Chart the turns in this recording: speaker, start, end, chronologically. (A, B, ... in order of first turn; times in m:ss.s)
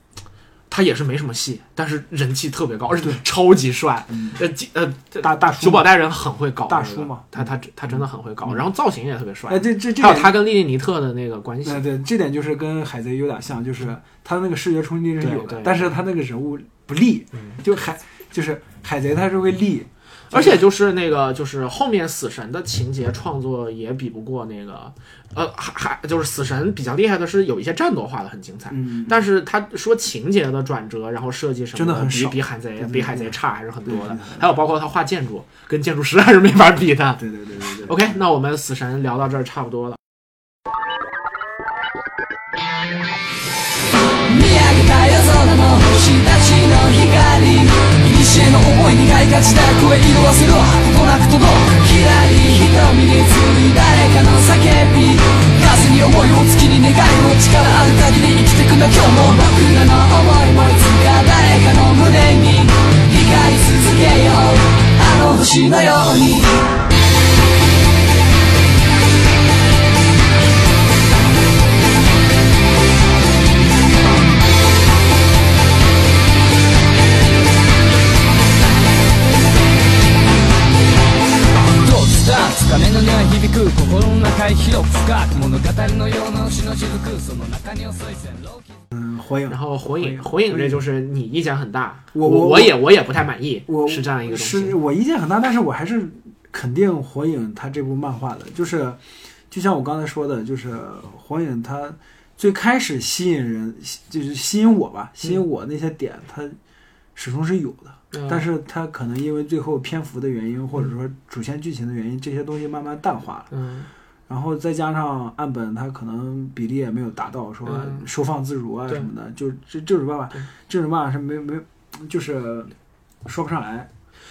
0:00.7-0:11.8 A
0:04.1-0:04.4 B
0:05.2-0:05.9 B
0:06.7-0:08.6 B
0:09.5-0:10.4 B
0:11.6-0:20.6 B
0:15.2-0:16.0 A
0:20.3-0:37.2 A
0:28.7-0:29.3 B
0:31.8-0:33.3 B
0:33.8-0:34.5 B
0:37.2-0:38.2 B
0:37.8-0:40.0 A
0:44.2-1:06.6 C
1:21.8-1:28.6 C
1:28.9-1:30.8 B
1:29.5-1:34.8 A
1:32.1-1:32.8 B
1:33.7-1:46.6 B
1:47.2-1:53.5 B
1:48.1-1:48.5 A
1:53.5-1:53.9 A
1:54.3-2:02.7 B
1:57.7-1:58.1 A
2:03.2-2:03.9 B